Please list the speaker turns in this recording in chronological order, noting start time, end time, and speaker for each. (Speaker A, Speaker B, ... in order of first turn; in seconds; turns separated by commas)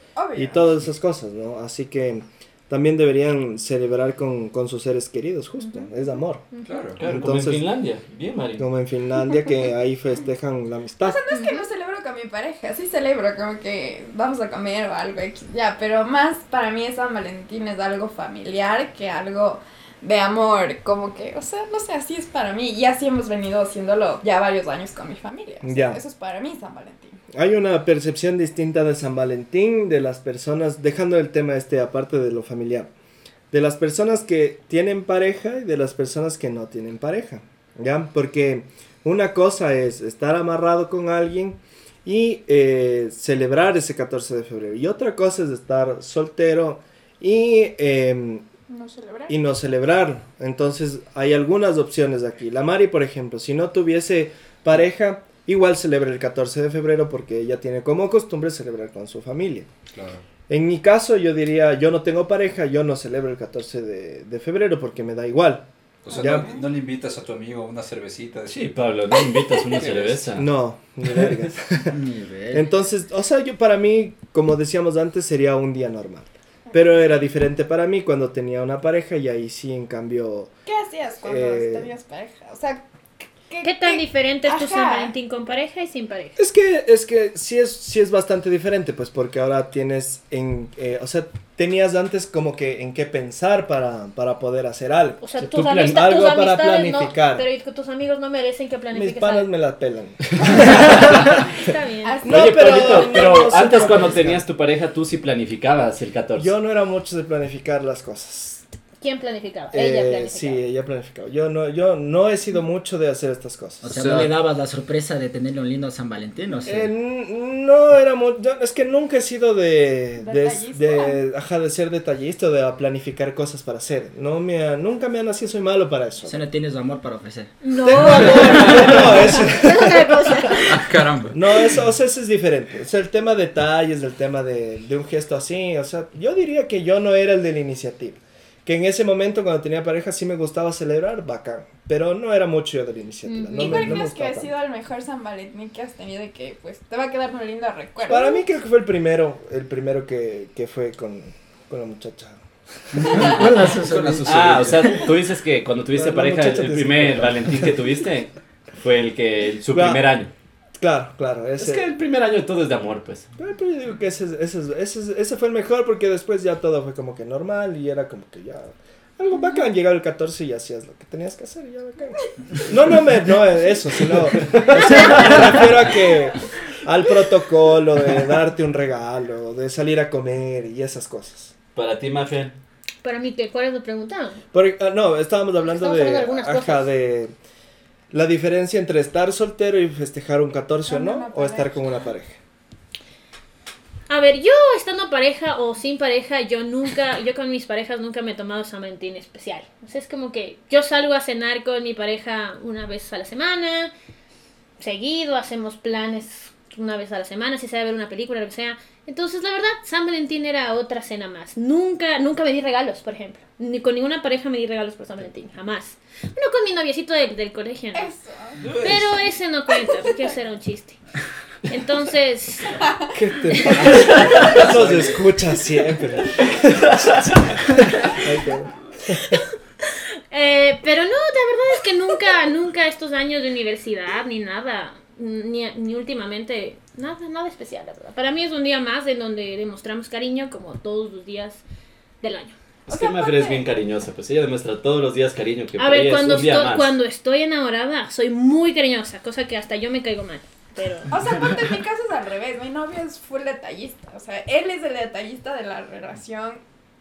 Speaker A: 0.1-0.7, Speaker B: 0.3-6.5, Speaker C: 5.6-5.9, Speaker C: 6.5-6.9, Speaker D: 6.6-7.0, Speaker E: 7.0-8.7, Speaker B: 7.0-7.7, Speaker B: 8.6-11.2, Speaker A: 11.0-27.2, Speaker C: 11.3-11.7, Speaker B: 25.6-26.0, Speaker B: 27.3-32.9, Speaker B: 33.5-48.5, Speaker A: 48.7-49.3, Speaker B: 49.3-59.7, Speaker D: 59.9-60.2, Speaker B: 60.5-66.4, Speaker D: 66.0-68.7, Speaker A: 66.1-66.6, Speaker E: 68.6-70.5, Speaker D: 69.7-70.2, Speaker B: 70.3-72.0, Speaker F: 71.9-72.7, Speaker B: 72.5-80.5, Speaker A: 76.7-77.0, Speaker A: 80.7-82.8, Speaker B: 81.2-81.9, Speaker A: 83.5-85.1, Speaker C: 83.6-86.4, Speaker B: 86.3-97.4, Speaker C: 95.2-99.5, Speaker E: 95.4-96.0, Speaker B: 98.9-101.4, Speaker C: 100.6-102.2, Speaker A: 102.0-103.8, Speaker B: 102.2-104.4, Speaker E: 102.3-106.5, Speaker B: 106.3-108.6, Speaker C: 109.0-110.6, Speaker B: 109.7-113.9, Speaker F: 113.8-116.9, Speaker D: 113.9-114.3, Speaker B: 116.7-126.4, Speaker A: 120.2-121.2, Speaker F: 126.2-129.1, Speaker C: 127.6-130.8, Speaker B: 127.8-130.2, Speaker D: 130.6-131.4, Speaker B: 131.3-144.5, Speaker C: 143.2-144.0, Speaker A: 143.5-148.4, Speaker B: 148.0-152.4, Speaker D: 153.0-155.0, Speaker F: 153.0-155.1, Speaker E: 154.2-160.3, Speaker B: 155.9-157.7, Speaker B: 159.7-160.0, Speaker B: 160.8-161.8, Speaker E: 161.6-163.3, Speaker B: 163.4-181.5, Speaker E: 174.1-175.8, Speaker C: 174.8-175.2, Speaker E: 181.7-182.5, Speaker C: 183.0-184.4, Speaker B: 184.5-187.3, Speaker C: 185.7-186.9, Speaker B: 188.1-192.4, Speaker A: 190.9-192.0, Speaker C: 194.1-203.9, Speaker C: 204.8-218.1, Speaker A: 217.9-218.6, Speaker D: 218.6-219.1, Speaker C: 218.8-221.0, Speaker A: 219.8-220.1, Speaker C: 221.7-222.8, Speaker B: 223.1-227.3, Speaker E: 224.0-224.7, Speaker D: 224.6-225.1, Speaker B: 228.0-229.4, Speaker C: 229.2-241.6, Speaker C: 242.2-243.7, Speaker E: 242.9-246.9, Speaker C: 245.8-251.1, Speaker A: 251.1-256.6